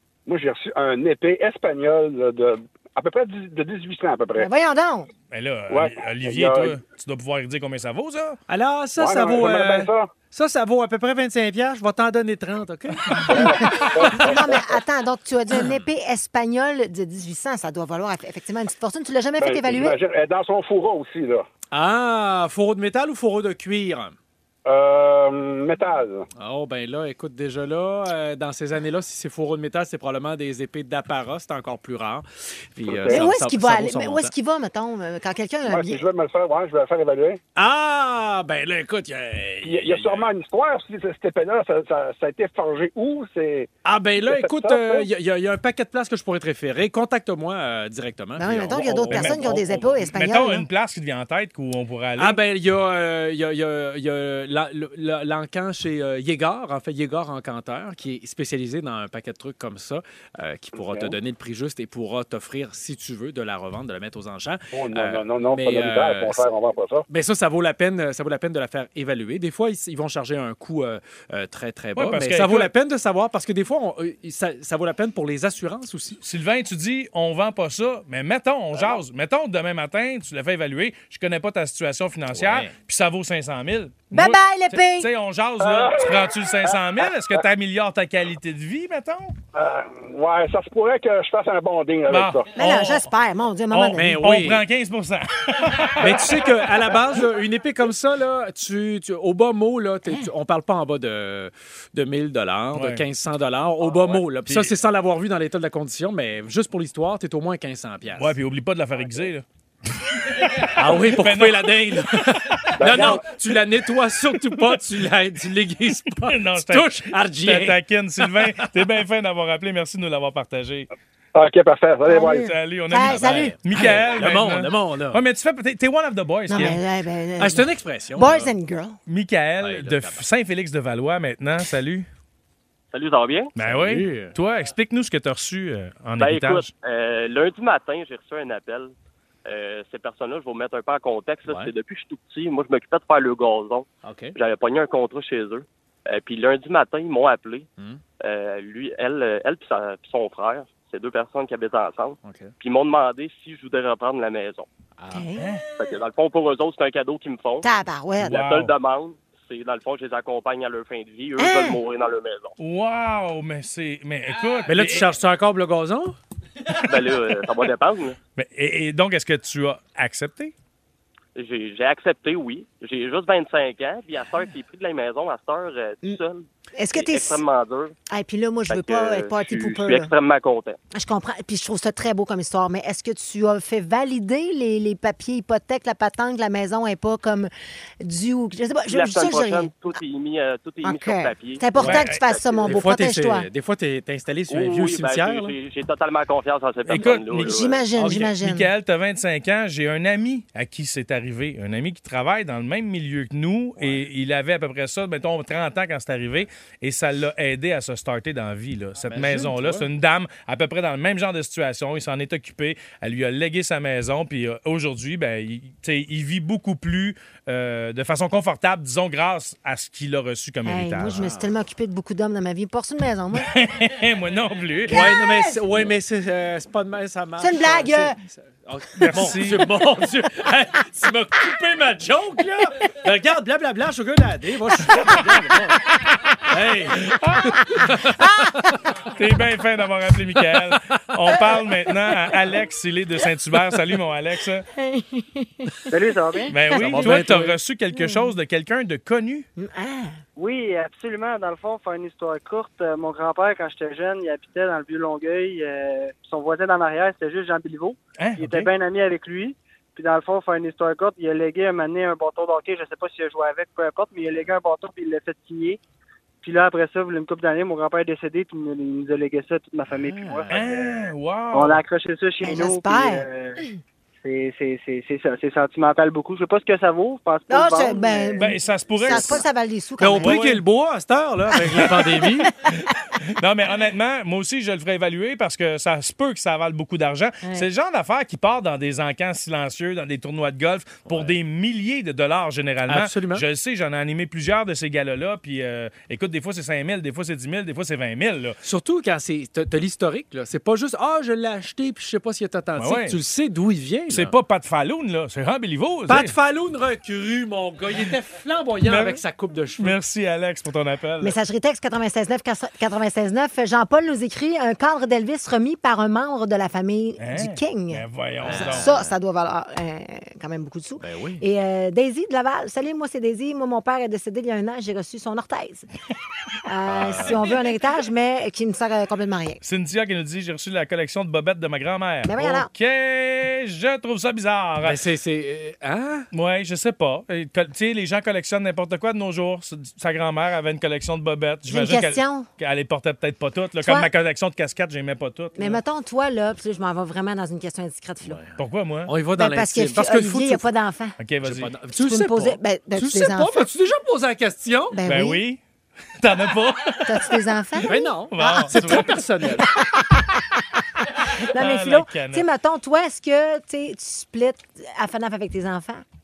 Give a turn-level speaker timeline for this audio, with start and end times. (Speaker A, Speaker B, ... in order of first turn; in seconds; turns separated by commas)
Speaker A: 0.2-4.5, Speaker B: 4.4-5.1, Speaker C: 5.3-8.4, Speaker A: 5.7-6.8, Speaker D: 8.5-14.3, Speaker A: 8.9-10.1, Speaker B: 13.2-19.9, Speaker A: 13.3-14.8, Speaker A: 19.4-21.4, Speaker D: 21.7-24.1, Speaker A: 24.6-26.3, Speaker D: 26.4-34.3, Speaker A: 32.8-33.3, Speaker B: 33.1-36.0, Speaker A: 35.7-37.4, Speaker D: 37.5-40.3, Speaker A: 39.6-45.1, Speaker D: 43.8-50.1, Speaker B: 48.4-50.7, Speaker C: 49.1-49.5, Speaker C: 50.1-52.4, Speaker D: 52.2-66.5, Speaker A: 60.8-61.2, Speaker A: 64.7-67.0, Speaker D: 67.1-76.2, Speaker C: 71.9-72.7, Speaker C: 76.2-89.3, Speaker D: 82.3-82.7, Speaker B: 84.1-85.1, Speaker A: 85.6-86.8, Speaker A: 89.5-92.5, Speaker C: 92.1-93.1, Speaker B: 92.5-94.2, Speaker C: 93.7-96.6, Speaker D: 93.9-94.6, Speaker D: 96.0-108.3, Speaker C: 102.7-103.0, Speaker C: 104.4-104.7, Speaker C: 108.2-109.4, Speaker C: 110.1-113.2, Speaker D: 110.6-118.7, Speaker A: 112.8-113.3, Speaker C: 116.2-120.9, Speaker A: 121.3-122.5, Speaker B: 122.1-123.5, Speaker C: 122.2-126.8, Speaker D: 123.0-125.2, Speaker B: 126.5-129.0, Speaker D: 127.4-128.5, Speaker C: 129.1-132.1, Speaker D: 129.6-130.2, Speaker E: 132.9-133.5, Speaker C: 133.6-136.7, Speaker D: 133.6-134.3, Speaker E: 136.2-138.9, Speaker E: 139.4-147.7, Speaker D: 144.0-144.4, Speaker E: 148.2-154.7, Speaker D: 152.2-152.5, Speaker D: 155.0-155.4, Speaker B: 155.1-155.4, Speaker C: 155.3-155.7, Speaker E: 155.7-157.7, Speaker B: 157.6-158.4, Speaker E: 158.2-162.5, Speaker C: 158.2-158.7, Speaker B: 161.4-161.8, Speaker C: 162.6-165.2, Speaker D: 164.7-166.1, Speaker E: 166.8-168.2, Speaker C: 168.4-170.5, Speaker E: 171.3-177.9, Speaker B: 176.8-177.4, Speaker B: 178.1-180.1, Speaker E: 178.7-180.8, Speaker B: 180.9-187.5, Speaker B: 188.0-189.7, Speaker E: 188.9-192.8, Speaker B: 190.8-193.5, Speaker C: 191.8-192.2, Speaker D: 192.6-195.5, Speaker E: 194.5-197.9, Speaker C: 196.8-221.2, Speaker B: 197.4-198.7, Speaker D: 203.8-204.1, Speaker D: 209.1-209.9, Speaker B: 220.6-223.5, Speaker D: 221.1-221.5, Speaker C: 223.3-225.1, Speaker D: 224.9-235.8, Speaker B: 224.9-225.9, Speaker B: 227.4-228.2, Speaker C: 229.0-229.7, Speaker C: 234.9-235.2, Speaker D: 236.5-238.9, Speaker C: 236.9-238.0, Speaker C: 239.1-244.7, Speaker B: 244.8-245.9, Speaker F: 245.9-247.3, Speaker C: 246.5-249.5, Speaker B: 246.7-246.9, Speaker D: 246.7-247.6, Speaker B: 247.9-248.3, Speaker B: 249.6-250.2, Speaker F: 250.4-265.8, Speaker C: 258.2-258.7, Speaker F: 266.4-270.5, Speaker D: 269.9-271.0, Speaker C: 270.5-271.8, Speaker F: 271.5-273.6, Speaker B: 272.4-273.2, Speaker F: 274.2-278.5, Speaker B: 277.5-280.4, Speaker C: 278.4-279.4, Speaker D: 279.1-279.4, Speaker D: 280.0-282.5, Speaker C: 280.2-280.6, Speaker B: 281.8-282.2, Speaker C: 282.6-298.6, Speaker D: 291.1-291.4, Speaker D: 292.9-293.4, Speaker D: 298.6-304.3, Speaker C: 302.8-303.2, Speaker C: 304.1-306.3, Speaker D: 306.1-309.9, Speaker C: 308.8-309.2, Speaker C: 309.8-311.4, Speaker B: 311.2-325.9, Speaker C: 317.2-318.9, Speaker D: 318.4-319.1, Speaker D: 321.0-321.4, Speaker B: 326.6-329.6, Speaker D: 326.9-327.6, Speaker C: 329.6-335.0, Speaker B: 332.2-332.7, Speaker D: 334.8-336.3, Speaker C: 336.3-345.8, Speaker B: 341.7-342.5, Speaker B: 343.8-344.1, Speaker B: 345.6-348.4, Speaker D: 348.2-350.6, Speaker C: 348.6-349.1, Speaker B: 349.4-351.2, Speaker C: 351.2-351.7, Speaker D: 351.4-355.0, Speaker B: 351.9-353.7, Speaker B: 354.9-355.4, Speaker C: 355.0-355.6, Speaker C: 356.2-357.3, Speaker B: 357.0-366.0, Speaker D: 357.8-359.7, Speaker C: 357.9-359.2, Speaker C: 361.5-362.4